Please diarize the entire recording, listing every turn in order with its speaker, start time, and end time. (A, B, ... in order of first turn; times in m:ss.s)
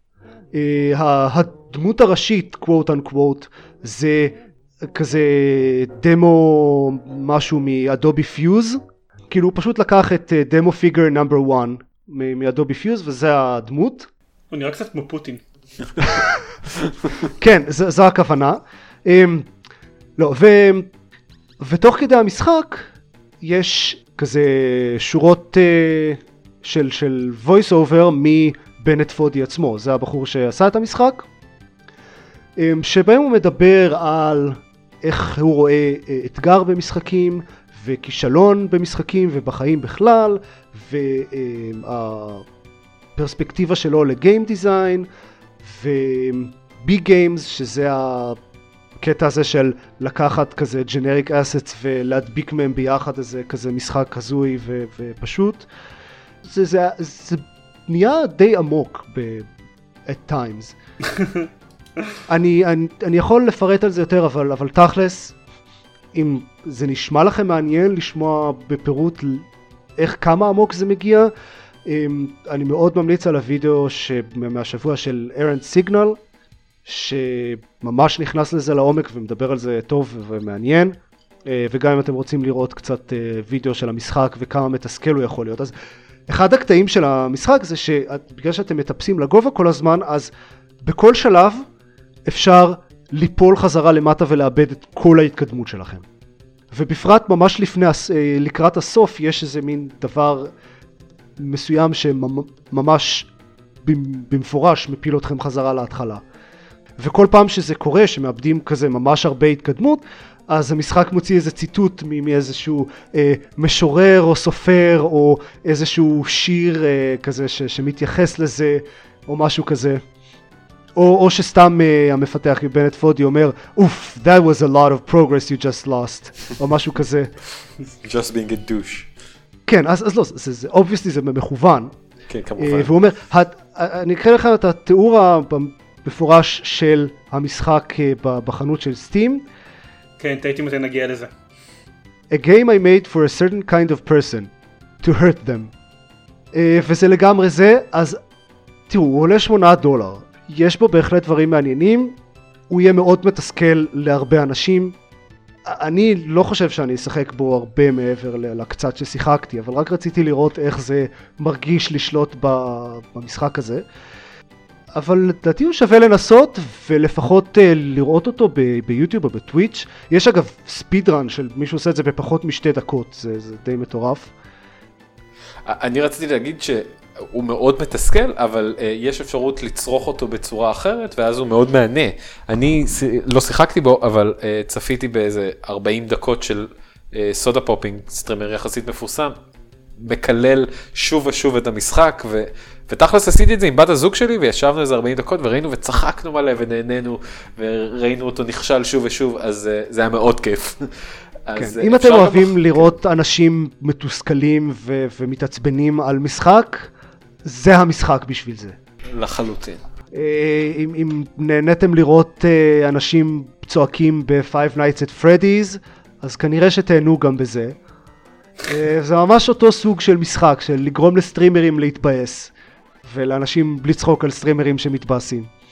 0:00.5-0:14.1 A
0:14.5-0:15.4 B
0:16.0-0:16.4 A
0:17.2-0:19.5 A
0:20.2-0:20.9 A
0:21.6-0:22.9 A
0:23.4-0:31.3 A
0:32.6-0:42.5 A
0:43.2-0:45.1 A
0:45.6-0:48.4 A
0:49.0-0:55.7 A
0:56.4-0:59.5 A
1:00.1-1:00.8 A
1:01.2-1:01.4 B
1:02.3-1:05.4 A
1:06.1-1:09.5 A
1:10.0-1:11.3 A
1:11.8-1:16.2 A
1:16.8-1:25.7 A
1:26.3-1:30.3 A
1:30.8-1:31.7 A
1:32.2-1:36.1 A
1:36.7-1:40.5 A
1:41.4-1:43.3 A
1:43.8-1:46.2 A
1:47.0-2:00.0 A
2:01.0-2:07.3 A
2:08.0-2:09.1 C
2:09.7-2:12.0 A
2:12.3-2:12.9 C
2:12.6-2:19.5 A
2:20.2-2:21.3 B
2:22.3-2:24.5 A
2:25.0-2:25.7 A
2:26.5-2:28.2 A
2:28.9-2:32.2 A
2:32.7-2:35.0 A
2:35.6-2:43.8 A
2:44.9-2:54.3 A
2:55.6-3:09.4 C
3:10.0-3:22.9 C
3:21.6-3:26.9 A
3:27.4-3:28.8 A
3:29.1-3:29.8 C
3:30.1-3:37.8 A
3:38.7-3:42.5 A
3:43.0-3:45.5 A